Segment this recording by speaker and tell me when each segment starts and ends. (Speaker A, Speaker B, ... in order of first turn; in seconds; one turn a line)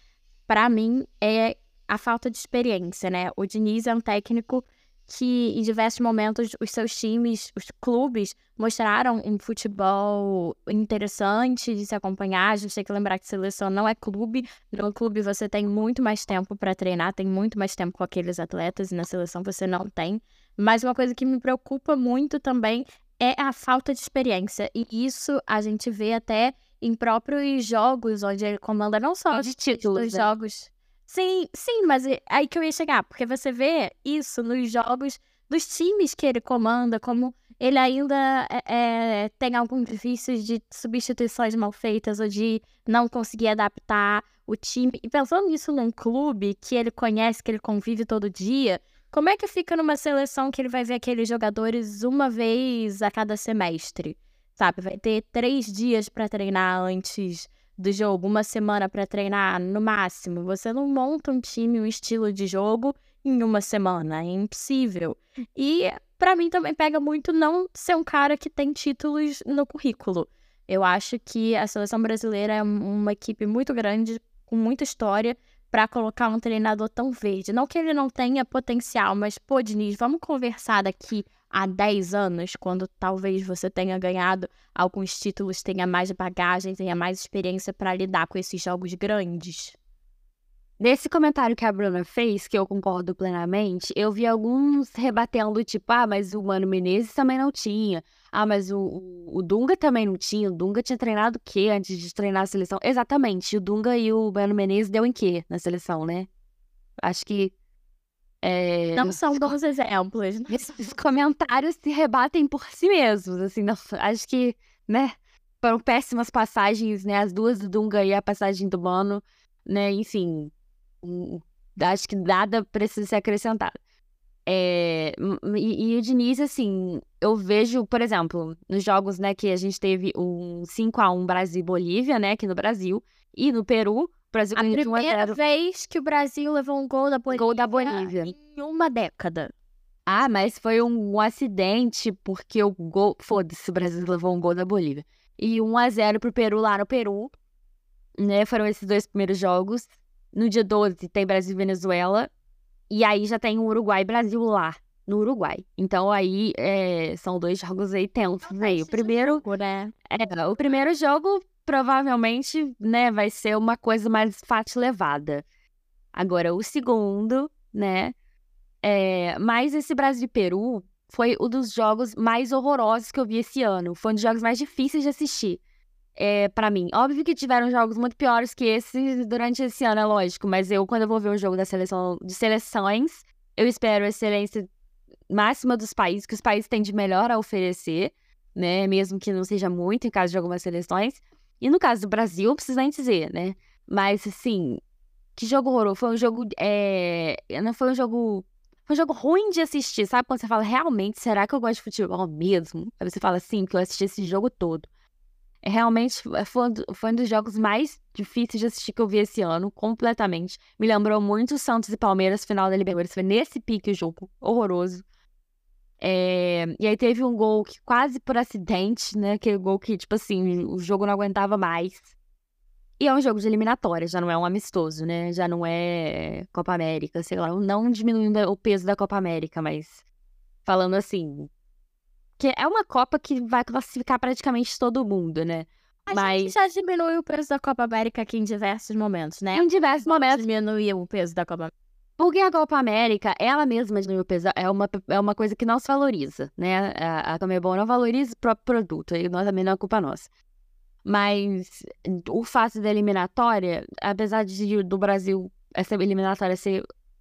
Speaker A: 0.5-89.8
Speaker B: 29.3-30.3
Speaker B: 90.8-106.3
Speaker B: 107.0-107.5
Speaker B: 108.4-109.5
Speaker A: 109.0-110.6
Speaker B: 110.5-120.5
Speaker B: 121.0-123.7
Speaker B: 124.5-135.4
Speaker A: 134.5-139.5
Speaker B: 137.3-138.3
Speaker B: 140.1-147.3
Speaker B: 148.2-152.3
Speaker B: 152.9-159.4
Speaker A: 158.4-159.9
Speaker B: 160.1-165.4
Speaker B: 166.1-168.1
Speaker B: 168.8-175.6
Speaker B: 176.2-184.7
Speaker B: 185.3-194.8
Speaker B: 195.3-204.9
Speaker B: 205.6-215.0
Speaker B: 216.0-222.1
Speaker B: 223.0-230.0
Speaker B: 230.7-231.5
Speaker B: 232.4-236.5
Speaker A: 236.1-241.7
Speaker B: 239.5-240.4
Speaker B: 242.2-250.3
Speaker B: 251.0-256.8